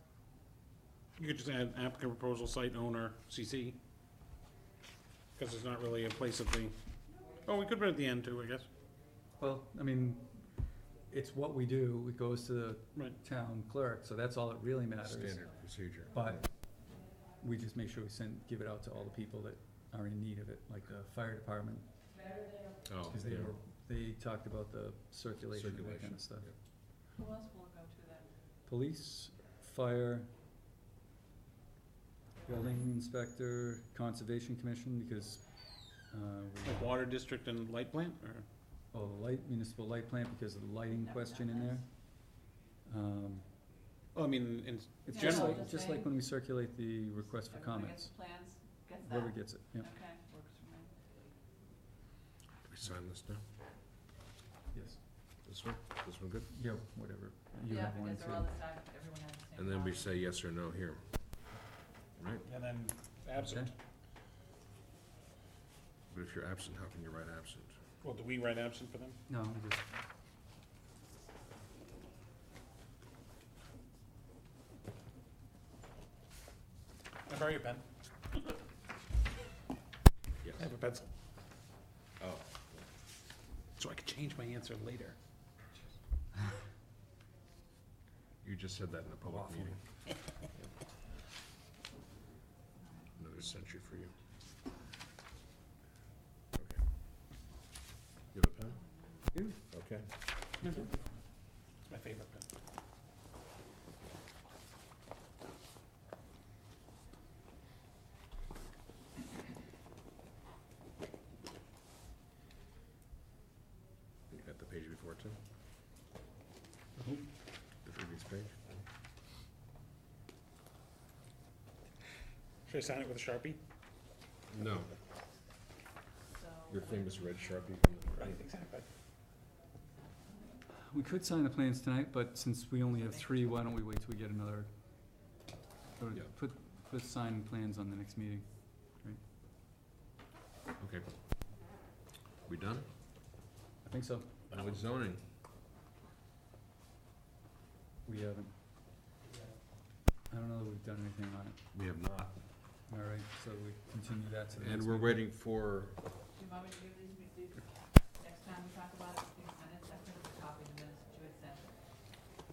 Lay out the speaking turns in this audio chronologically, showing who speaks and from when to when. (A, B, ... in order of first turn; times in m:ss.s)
0:01.2-0:03.8 A
0:05.3-0:08.7 A
0:09.4-0:21.9 B
0:15.0-0:16.4 C
0:22.8-0:23.5 C
0:23.1-0:26.5 B
0:25.5-0:26.5 C
0:27.1-0:28.3 D
0:28.7-0:30.3 B
0:32.4-0:36.8 B
0:36.6-0:38.4 A
0:38.9-0:42.3 B
0:40.9-0:41.8 D
0:42.8-0:43.5 B
0:44.1-0:45.6 A
0:45.0-0:48.1 B
0:45.1-0:46.1 D
0:47.4-0:50.9 D
0:49.0-0:49.9 B
0:52.6-0:53.4 C
0:54.7-0:55.0 B
0:55.4-0:56.5 C
0:56.5-0:58.5 B
0:57.7-1:00.1 D
0:59.6-1:01.6 C
1:02.1-1:02.5 C
1:02.5-1:03.7 A
1:03.4-1:03.7 B
1:06.1-1:07.7 C
1:08.0-1:09.2 A
1:09.3-1:09.9 B
1:17.2-1:17.8 A
1:20.6-1:21.1 A
1:22.2-1:22.8 C
1:23.8-1:25.2 A
1:28.4-1:29.8 C
1:32.8-1:33.2 D
1:33.2-1:34.1 C
1:36.5-1:36.8 C
1:38.3-1:38.8 C
1:38.8-1:39.2 D
1:39.3-1:39.6 B
1:39.7-1:40.1 C
1:40.6-1:40.9 A
1:41.8-1:42.4 A
1:54.3-1:55.4 C
1:57.0-1:57.3 B
1:57.8-1:58.8 C
2:02.6-2:03.6 A
2:04.5-2:04.9 C
2:06.3-2:07.8 D
2:06.7-2:08.4 C
2:08.2-2:08.9 A
2:09.9-2:10.6 D
2:10.8-2:14.7 B
2:16.0-2:19.2 B
2:20.8-2:21.1 C
2:22.4-2:22.9 C
2:23.8-2:24.6 B
2:24.5-2:25.2 C
2:28.0-2:28.6 B
2:30.3-2:31.6 B
2:31.7-2:32.4 C
2:32.9-2:35.2 B
2:34.6-2:36.0 C
2:36.3-2:41.9 D